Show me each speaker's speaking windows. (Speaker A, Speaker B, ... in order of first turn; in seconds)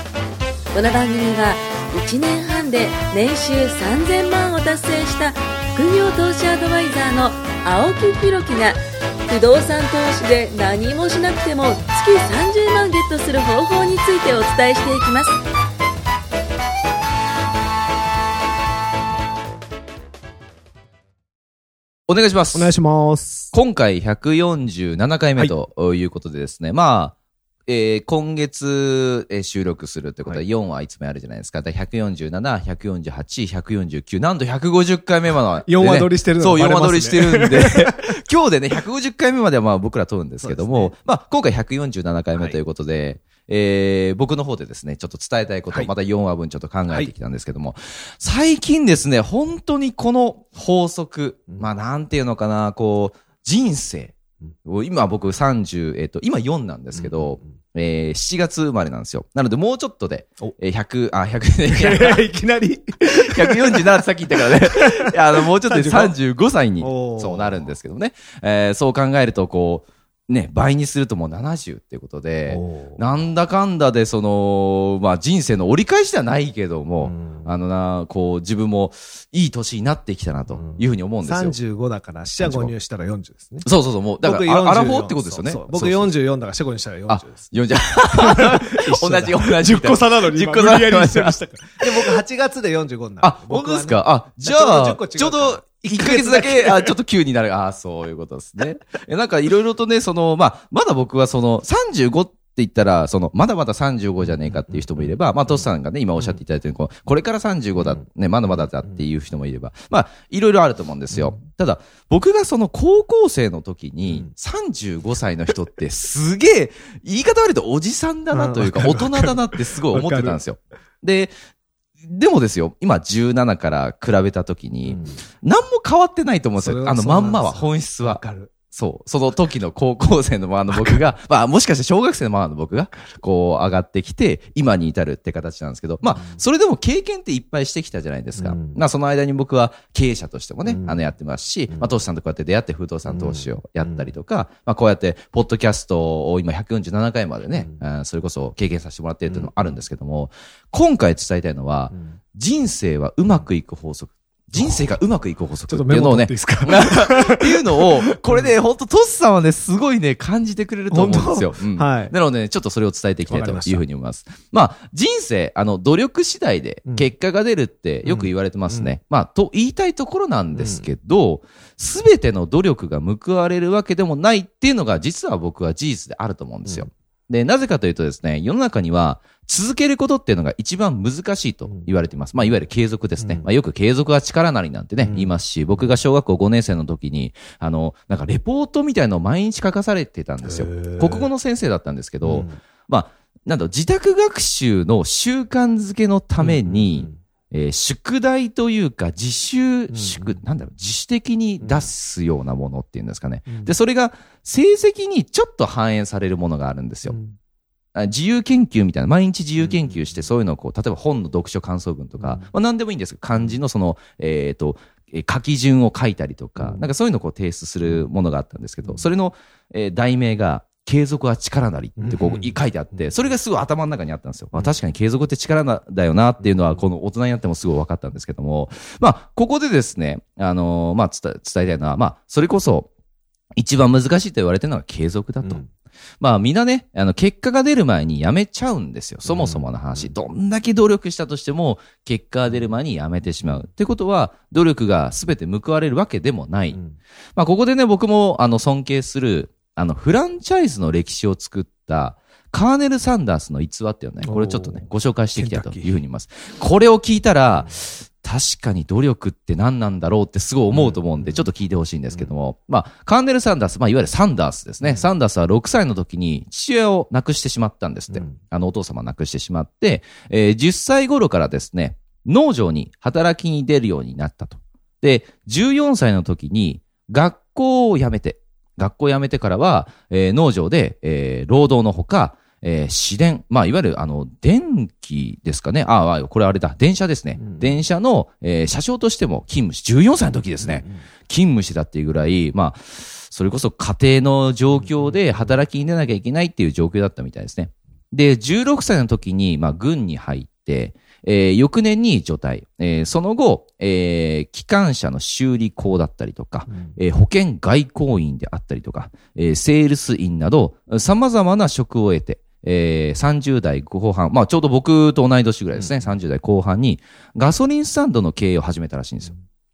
Speaker A: 0.7-15.4
Speaker B: 22.1-22.7, 23.5-27.1, 27.7-62.2, 63.0-81.5, 82.4-82.7, 83.6-86.1, 87.1-92.2, 93.2-121.3, 122.0-207.2, 207.9-232.9, 233.5-235.6, 236.2-246.8, 247.3-319.3
Speaker C: 22.5-23.5, 35.7-38.0, 40.4-40.9, 56.9-57.5, 61.7-66.1, 66.8-67.7, 72.5-73.0, 77.0-77.5, 80.5-83.7, 84.2-87.5, 88.1-96.9, 104.5-105.1, 118.3-120.4, 124.8-125.2, 126.6-128.5, 130.7-131.0, 136.1-136.4, 138.4-138.8, 140.7-141.0, 143.1-144.1, 147.5-147.8, 149.3-149.7, 151.9-152.2, 154.6-154.9, 155.7-158.5, 160.9-162.1, 163.3-163.8, 168.0-168.9, 170.5-170.9, 185.0-185.9, 190.4-191.3, 192.2-192.6, 196.4-197.2, 199.9-200.4, 201.6-201.9, 203.5-203.7, 207.1-207.3, 209.6-210.2, 212.2-212.5, 216.6-216.8, 222.0-223.1, 239.2-240.1, 246.7-247.0, 254.2-254.8, 255.3-256.0, 260.7-261.4, 268.1-268.4, 287.4-287.8, 290.6-291.0, 294.7-295.5, 306.7-306.9, 315.8-316.1